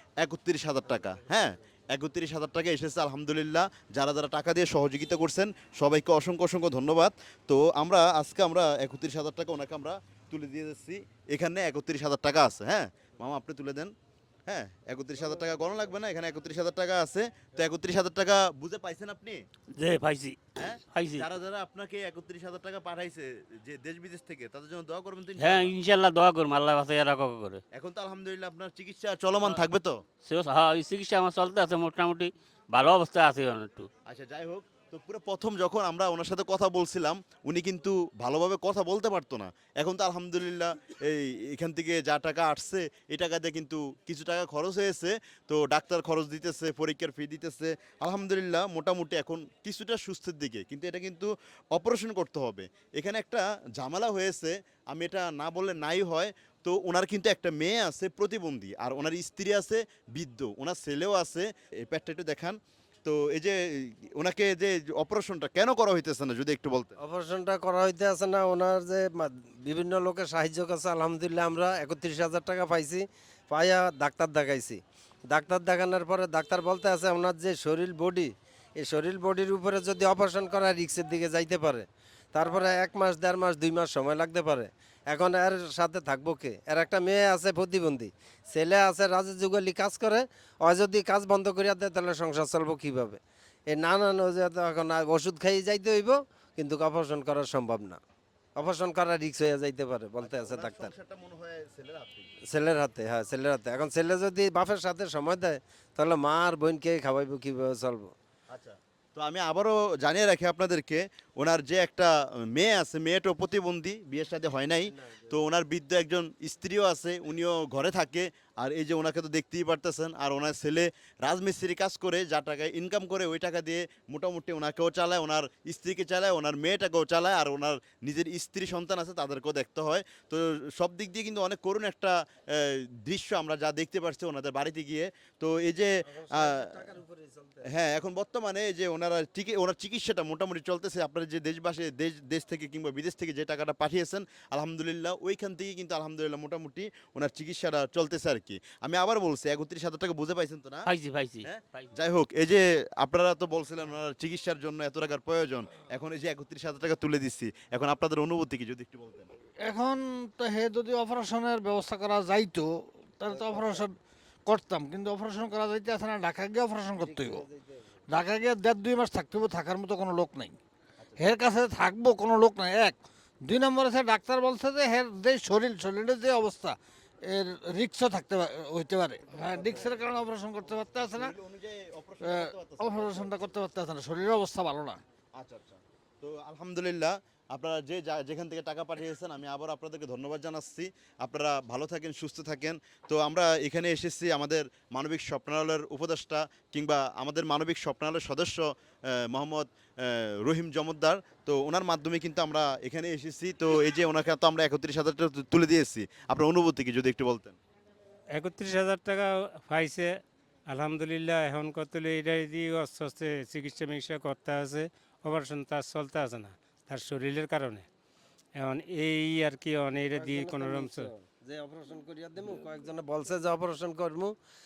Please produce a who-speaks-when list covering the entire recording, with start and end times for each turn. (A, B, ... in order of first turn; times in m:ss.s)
0:00.2-0:13.9 A
0:00.9-0:01.3 B
0:14.5-0:19.4 A
0:19.7-0:21.2 C
0:20.6-0:25.7 A
0:25.4-0:27.6 C
0:27.7-0:30.0 A
0:29.4-0:29.6 C
0:30.2-0:33.9 C
0:34.1-1:06.9 A
1:07.0-1:33.2 B
1:33.7-1:38.0 B
1:38.6-1:40.9 B
1:40.2-1:42.3 A
1:42.5-1:48.1 B
1:48.5-2:16.8 A
1:55.0-1:55.4 B
2:16.0-2:17.7 B
2:17.6-2:30.9 A
2:30.8-2:31.9 C
2:31.4-2:39.3 A
2:39.6-2:43.9 D
2:43.3-2:43.9 B
2:44.4-2:47.4 D
2:46.9-2:48.0 B
2:48.1-2:50.6 D
2:51.0-2:51.2 A
2:51.2-3:01.3 D
2:59.4-3:00.0 A
3:00.6-3:03.6 A
3:02.2-3:05.0 D
3:05.4-3:27.6 A
3:28.3-3:37.9 E
3:38.6-3:41.1 E
3:40.1-3:44.3 B